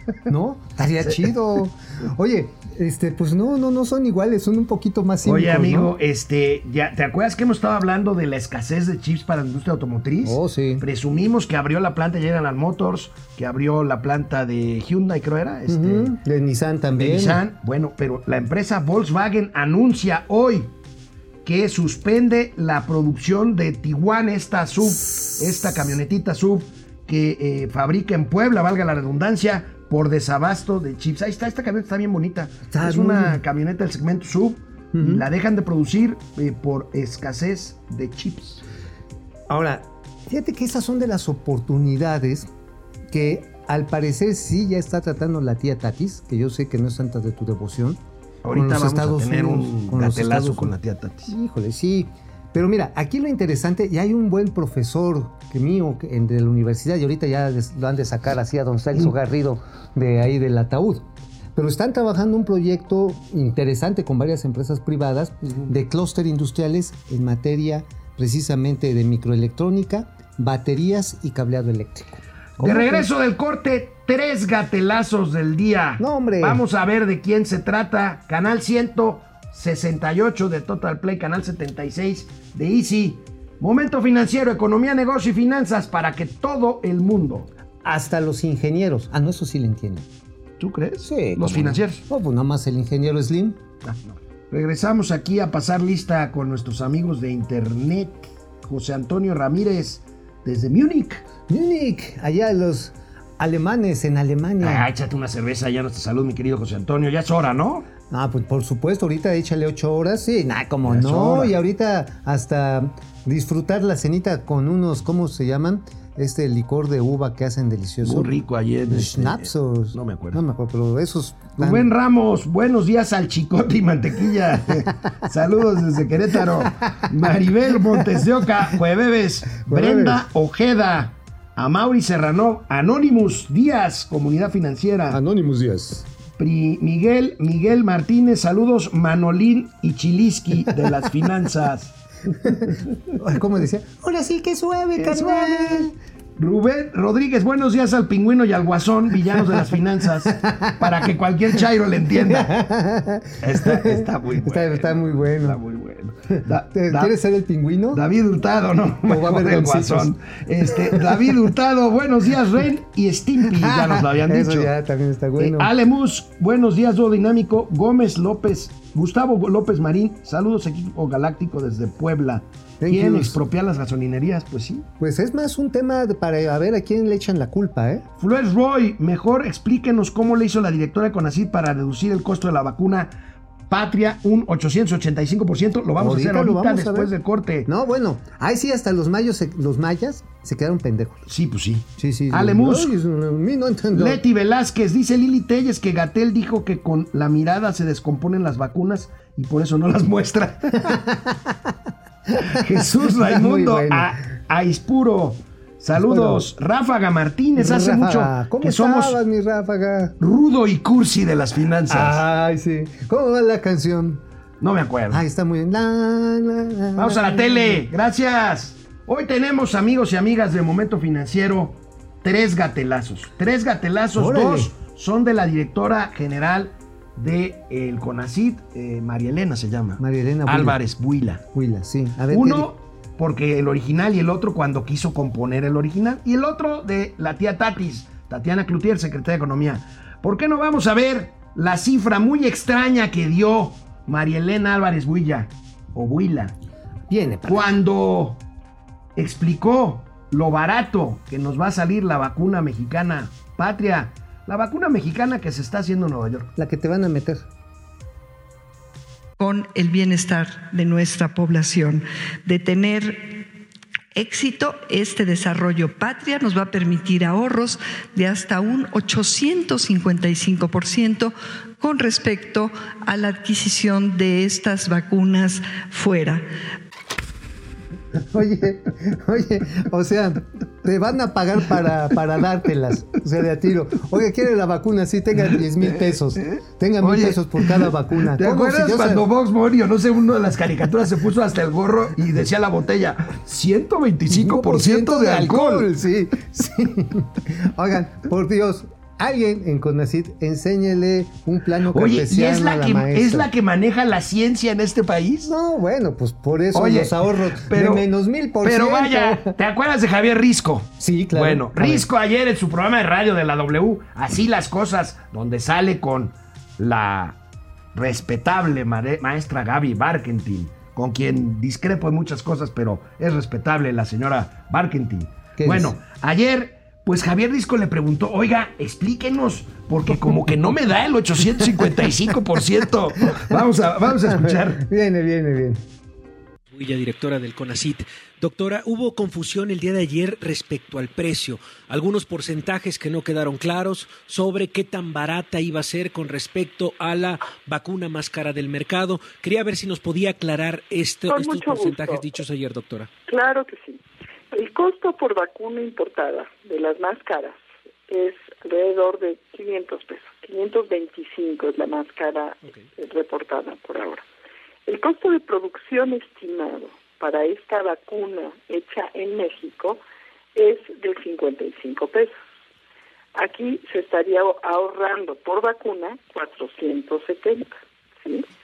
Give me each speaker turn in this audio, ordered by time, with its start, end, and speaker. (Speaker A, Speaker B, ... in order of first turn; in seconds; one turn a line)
Speaker A: 0.3-5.9
Speaker B: 5.2-16.1
Speaker A: 10.2-10.8
Speaker A: 15.7-17.4
Speaker B: 17.0-20.7
Speaker B: 21.4-38.6
Speaker A: 32.7-33.4
Speaker A: 34.9-35.2
Speaker A: 39.5-42.5
Speaker A: 43.1-48.0
Speaker B: 48.4-51.3
Speaker A: 48.5-50.7
Speaker A: 51.3-73.1
Speaker B: 65.5-65.7
Speaker B: 72.6-87.5
Speaker A: 76.0-76.6
Speaker A: 87.8-90.1
Speaker B: 90.6-92.0
Speaker A: 91.0-93.6
Speaker B: 93.8-101.3
Speaker A: 101.5-104.9
Speaker B: 104.6-107.9
Speaker A: 108.1-118.3
Speaker B: 110.8-111.5
Speaker B: 118.0-120.4
Speaker A: 118.9-121.9
Speaker B: 121.6-135.2
Speaker A: 127.9-128.2
Speaker A: 129.7-130.2
Speaker A: 135.1-136.1
Speaker B: 136.4-142.8
Speaker A: 143.2-145.9
Speaker B: 145.0-152.5
Speaker A: 149.3-149.6
Speaker A: 150.2-151.0
Speaker A: 152.1-155.6
Speaker B: 153.4-157.2
Speaker A: 156.4-158.0
Speaker B: 157.9-164.7
Speaker A: 159.1-160.1
Speaker A: 160.7-161.3
Speaker A: 163.4-165.7
Speaker B: 165.4-174.9
Speaker A: 172.8-173.4
Speaker A: 175.0-178.1
Speaker B: 178.2-183.2
Speaker B: 183.7-187.7
Speaker A: 186.0-187.1
Speaker A: 187.7-191.3
Speaker B: 191.3-192.9
Speaker A: 192.0-194.2
Speaker B: 193.9-201.0
Speaker A: 200.8-201.8
Speaker A: 202.3-204.2
Speaker B: 202.5-209.2
Speaker A: 206.0-206.4
Speaker A: 207.6-210.2
Speaker B: 210.2-212.2
Speaker A: 211.9-214.2
Speaker B: 214.6-215.2
Speaker A: 215.1-217.9
Speaker B: 217.0-231.4
Speaker A: 224.2-224.7
Speaker A: 230.0-230.8
Speaker A: 231.5-232.7
Speaker B: 232.3-246.6
Speaker A: 247.1-247.8
Speaker B: 247.5-248.4
Speaker B: 249.2-256.5
Speaker A: 256.6-257.5
Speaker C: 259.4-263.4
Speaker C: 264.1-276.4
Speaker A: 278.3-289.3
Speaker B: 285.5-295.9
Speaker A: 294.3-303.5
Speaker B: 301.9-305.5
Speaker A: 305.5-309.5
Speaker B: 306.7-308.1
Speaker B: 308.6-317.4
Speaker A: 311.0-312.1
Speaker B: 317.9-334.8
Speaker A: 325.6-325.9
Speaker A: 333.3-335.9
Speaker D: 336.7-353.1
Speaker E: 351.3-352.2
Speaker E: 353.3-364.2
Speaker E: 364.9-370.0
Speaker E: 370.6-372.4
Speaker E: 373.4-378.4